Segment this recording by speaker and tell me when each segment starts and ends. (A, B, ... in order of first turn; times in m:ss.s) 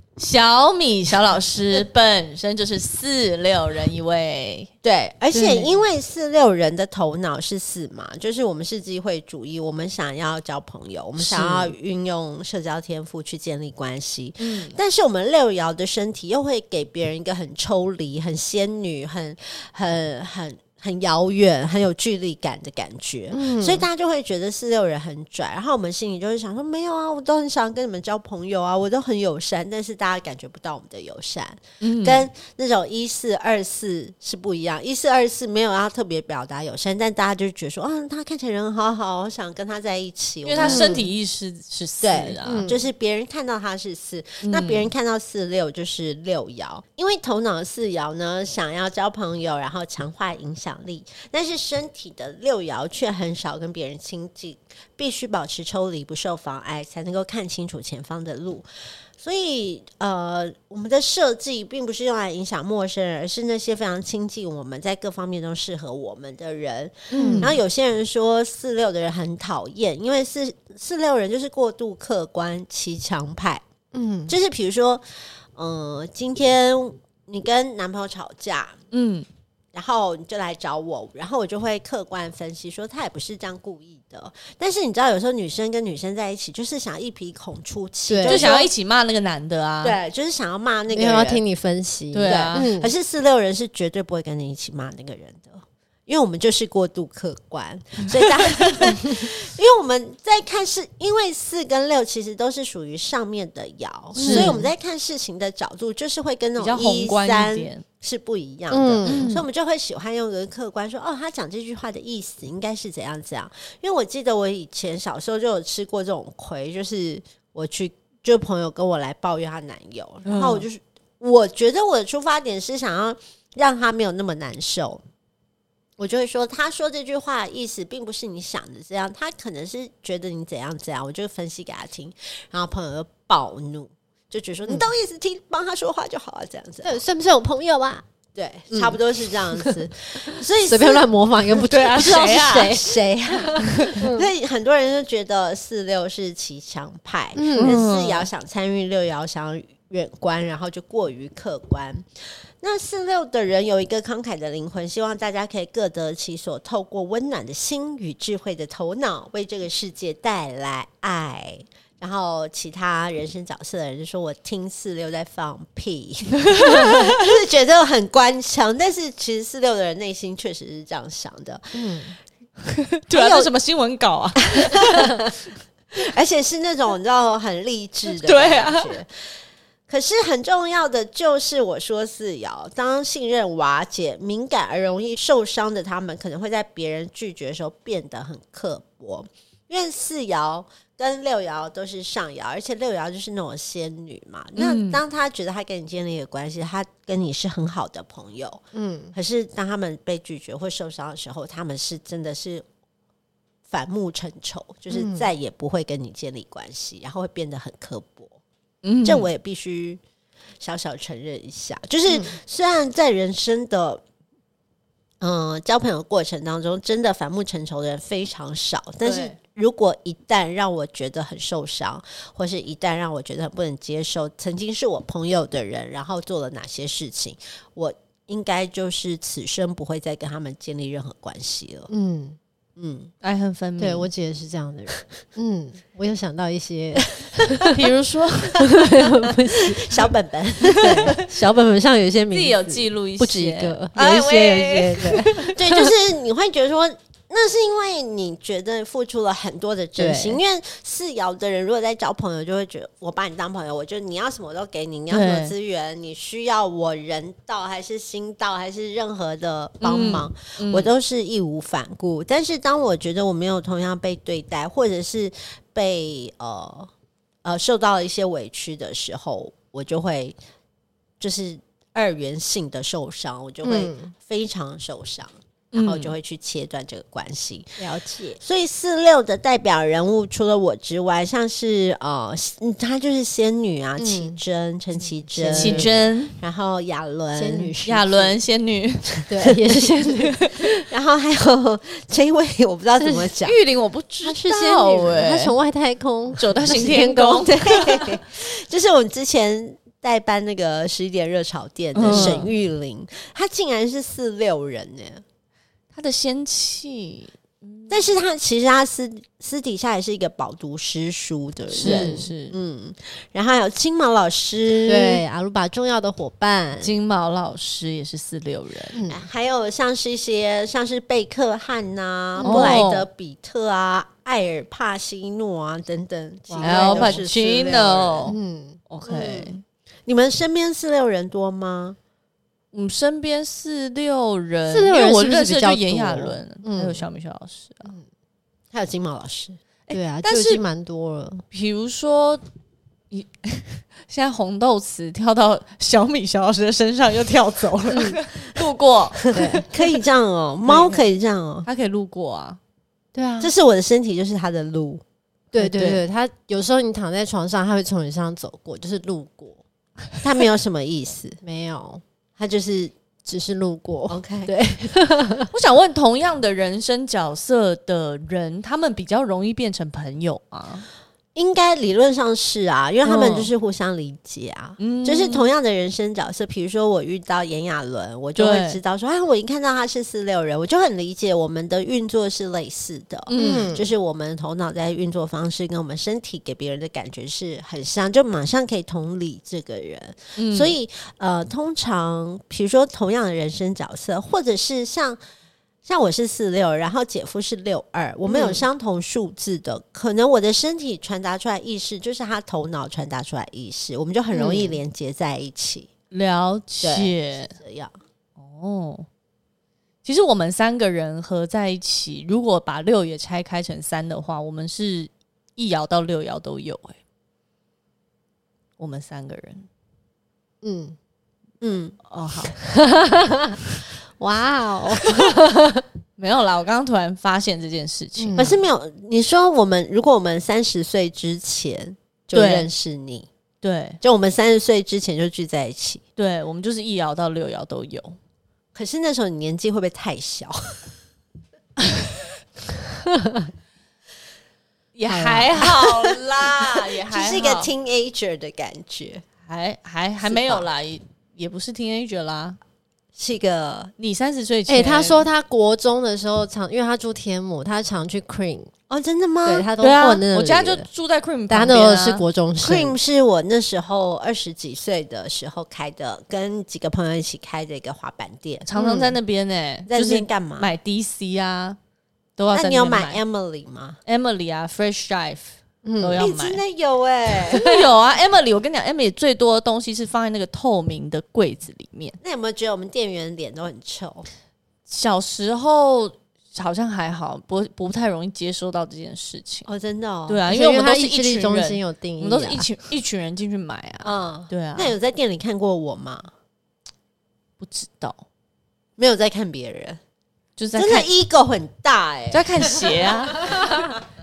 0:00.2-0:04.7 A
0:04.8-0:41.0 B
0:05.3-0:05.8 C
0:11.2-0:11.7 C
0:14.4-0:14.8 A
0:23.3-0:23.8 C
0:31.8-0:32.3 A
0:40.4-0:42.7 A
0:40.6-0:41.1 C
0:42.0-0:58.7 B
0:42.4-0:42.8 C
0:44.4-0:44.9 A
0:59.2-1:13.6 B
1:07.1-1:07.6 A
1:07.1-1:07.6 C
1:13.9-1:14.4 C
1:14.3-1:15.0 B
1:15.6-1:18.8 B
1:18.9-1:19.3 A
1:19.7-1:28.7 B
1:28.1-1:28.5 C
1:28.3-1:30.0 A
1:29.8-1:31.4 B
1:30.9-1:32.9 C
1:32.1-1:32.7 A
1:32.2-2:05.0 B
1:44.1-1:44.7 C
1:44.2-1:44.6 A
1:46.6-1:47.8 A
1:48.7-1:49.4 C
1:49.1-1:49.4 A
2:00.3-2:00.7 A
2:06.0-2:17.0 B
2:16.8-2:18.0 C
2:18.4-2:32.1 B
2:18.7-2:19.8 C
2:20.4-2:22.6 C
2:21.6-2:22.9 A
2:23.3-2:24.3 C
2:23.6-2:24.1 A
2:27.4-2:27.8 C
2:27.6-2:28.3 A
2:32.6-2:52.0 B
2:46.5-2:47.1 A
2:51.7-2:52.2 C
2:52.7-2:55.2 A
2:53.1-2:53.5 B
2:54.5-2:55.3 B
2:56.0-2:59.1 B
2:58.2-2:59.0 A
2:59.9-3:18.6 B
3:14.6-3:15.0 A
3:18.7-3:19.2 C
3:19.1-3:22.6 B
3:23.7-3:28.4 B
3:24.9-3:25.3 C
3:28.8-3:29.3 A
3:29.0-3:30.0 B
3:30.6-3:34.0 B
3:32.1-3:32.4 C
3:35.2-3:51.9 B
3:39.0-3:39.4 A
3:51.9-3:52.4 C
3:52.8-3:53.1 B
3:53.2-3:54.1 A
3:53.8-3:57.7 C
3:57.7-3:58.6 A
3:58.5-4:00.1 C
3:59.6-4:01.5 B
4:00.8-4:01.2 A
4:00.8-4:05.9 C
4:02.3-4:05.5 A
4:05.4-4:26.9 B
4:10.0-4:10.4 C
4:15.1-4:15.6 A
4:19.8-4:20.9 A
4:27.4-4:30.4 B
4:31.2-4:37.8 B
4:33.6-4:34.1 C
4:35.7-4:36.2 A
4:37.8-4:38.4 C
4:38.4-4:48.4 B
4:44.0-4:44.4 C
4:45.0-4:46.0 C
4:45.6-4:46.4 A
4:47.4-4:47.7 C
4:47.8-4:49.3 A
4:49.3-4:50.5 C
4:50.0-4:53.6 B
4:50.2-4:50.5 A
4:53.4-4:55.6 A
4:54.2-4:57.6 C
4:56.4-4:58.1 A
4:57.4-5:05.2 B
5:02.0-5:02.5 A
5:02.1-5:02.4 C
5:05.9-5:08.0 A
5:07.9-5:15.2 B
5:11.7-5:12.6 A
5:11.8-5:12.3 C
5:14.9-5:16.9 C
5:16.8-5:19.0 A
5:18.9-5:19.2 C
5:19.1-5:28.3 B
5:22.4-5:22.8 C
5:22.4-5:23.1 A
5:26.5-5:27.2 C
5:26.6-5:28.4 A
5:28.3-5:28.8 C
5:28.9-5:29.6 A
5:29.0-5:29.5 B
5:30.1-5:32.0 B
5:32.7-5:37.9 A
5:34.7-5:37.1 C
5:38.7-5:39.6 B
5:39.9-5:40.6 A
5:39.9-5:41.4 C
5:41.5-5:42.4 A
5:43.1-5:49.7 A
5:47.9-5:48.2 C
5:49.3-5:49.6 C
5:49.6-5:51.7 B
5:50.7-5:51.0 A
5:51.6-5:52.6 A
5:53.1-5:53.5 C
5:53.4-5:55.0 B
5:55.5-5:59.6 C
5:55.6-5:56.0 A
6:00.2-6:01.4 B
6:01.4-6:02.0 C
6:02.4-6:02.9 B
6:03.2-6:05.5 C
6:04.1-6:04.5 B
6:05.5-6:10.9 A
6:11.4-6:35.2 B
6:13.0-6:13.5 A
6:14.8-6:15.5 A
6:18.4-6:18.8 A
6:23.3-6:23.8 A
6:23.3-6:23.9 C
6:30.4-6:30.7 A
6:35.8-6:45.9 B
6:38.2-6:38.6 C
6:44.3-6:44.8 C
6:46.1-6:47.6 A
6:46.8-6:47.9 B
6:48.4-6:49.1 A
6:50.0-6:57.0 A
6:58.8-6:59.7 A
7:00.6-7:01.0 C
7:01.6-7:02.0 B
7:02.1-7:02.6 A
7:02.7-7:03.6 C
7:04.2-7:05.8 C
7:06.2-7:08.5 A
7:08.2-7:08.6 C
7:08.4-7:13.3 B
7:12.3-7:12.7 A
7:13.6-7:14.0 A
7:14.0-7:16.0 B
7:16.2-7:18.2 A
7:18.8-7:20.8 B
7:23.0-7:23.5 C
7:25.0-7:27.7 A
7:25.1-7:25.6 C
7:25.6-7:29.2 B
7:29.5-7:32.6 A
7:30.2-7:30.6 B
7:33.2-7:33.9 B
7:34.0-7:35.3 A
7:34.7-7:38.7 C
7:38.9-7:39.7 B
7:39.4-7:40.9 C
7:39.8-7:42.2 A
7:41.5-7:43.0 C
7:42.6-7:48.6 B
7:48.6-7:51.8 A
7:48.8-7:49.2 C
7:49.9-7:50.7 B
7:52.4-7:53.2 A
7:52.5-7:54.0 B
7:54.1-7:56.6 A
7:55.8-7:56.2 C
7:56.2-7:57.8 B
7:57.5-8:02.2 A
8:02.2-8:04.3 B
8:04.9-8:09.7 A
8:09.7-8:10.4 B
8:10.3-8:15.0 A
8:10.5-8:12.7 C
8:14.0-8:16.3 B
8:17.6-8:18.2 A
8:19.0-8:20.0 B
8:20.6-8:21.1 A
8:20.8-8:23.1 B
8:22.3-8:23.9 A